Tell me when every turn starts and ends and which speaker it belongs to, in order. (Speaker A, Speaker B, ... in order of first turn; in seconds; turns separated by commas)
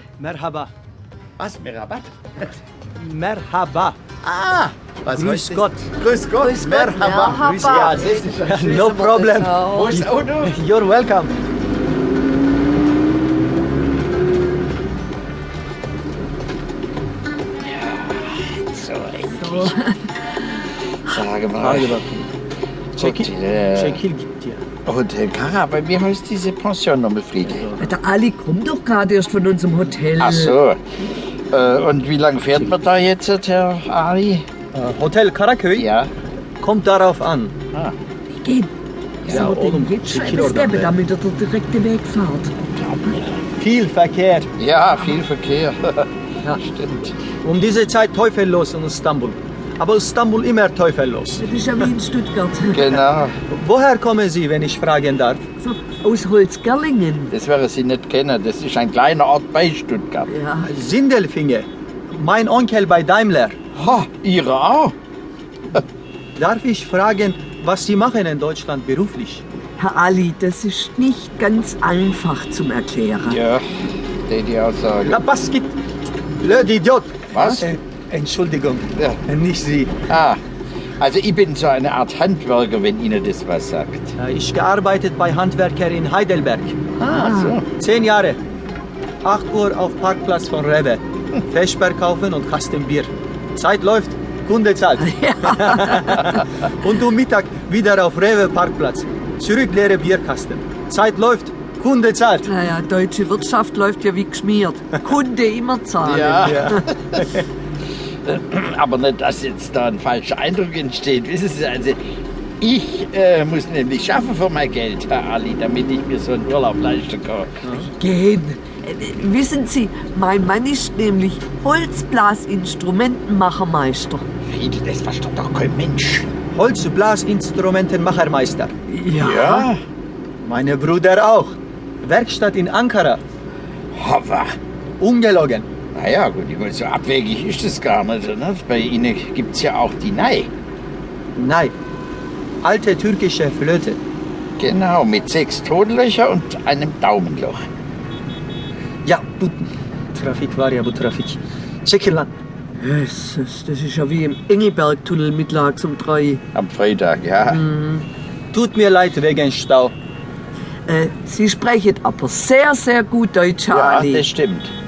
Speaker A: 0.2-0.7, Speaker B: 1.4-2.5, Speaker A: 3.0-4.0, Speaker B: 4.2-10.6, Speaker A: 5.1-5.9, Speaker C: 6.4-10.1, Speaker A: 7.4-11.3, Speaker B: 17.6-19.8, Speaker C: 19.3-20.2, Speaker B: 21.0-22.0, Speaker A: 21.6-22.3, Speaker B: 22.9-24.0, Speaker A: 23.0-24.6, Speaker B: 24.8-27.8, Speaker A: 27.5-27.8, Speaker C: 27.8-30.6, Speaker B: 30.2-30.8, Speaker B: 31.5-34.5, Speaker A: 34.7-35.9, Speaker B: 35.8-36.1, Speaker A: 36.6-37.5, Speaker C: 38.3-38.7, Speaker C: 39.2-42.5, Speaker A: 39.3-40.9, Speaker B: 42.8-43.4, Speaker A: 43.6-44.5, Speaker B: 44.6-47.2, Speaker A: 47.4-51.4, Speaker C: 51.4-52.9, Speaker B: 52.7-53.3, Speaker A: 53.5-55.4, Speaker C: 55.6-57.3, Speaker B: 57.3-60.3, Speaker C: 60.3-60.7, Speaker A: 60.6-63.6, Speaker B: 63.8-64.9, Speaker A: 66.4-69.4, Speaker C: 69.8-73.4, Speaker B: 73.3-75.2, Speaker A: 75.0-75.8, Speaker A: 76.4-80.0, Speaker B: 77.3-77.6, Speaker B: 80.1-80.4, Speaker B: 81.0-84.1, Speaker A: 84.2-86.9, Speaker B: 87.0-87.7, Speaker C: 87.0-87.5, Speaker A: 87.8-88.4, Speaker A: 89.2-102.5, Speaker C: 95.0-96.4, Speaker C: 102.4-106.8, Speaker B: 106.0-107.4, Speaker A: 106.5-107.4, Speaker B: 108.2-112.0, Speaker B: 112.6-117.5, Speaker A: 117.6-117.9, Speaker C: 117.9-124.2, Speaker B: 124.5-126.3, Speaker A: 126.5-128.7, Speaker C: 128.9-129.7, Speaker B: 129.2-129.8, Speaker A: 130.4-133.2, Speaker B: 133.9-134.5, Speaker A: 135.0-135.7, Speaker B: 135.9-140.5, Speaker A: 141.3-141.7, Speaker A: 142.6-144.0, Speaker B: 144.6-147.6, Speaker A: 149.0-152.3, Speaker C: 152.8-156.4, Speaker B: 156.5-157.6, Speaker C: 157.4-158.0, Speaker A: 158.5-159.9, Speaker C: 160.9-164.3, Speaker B: 163.7-164.7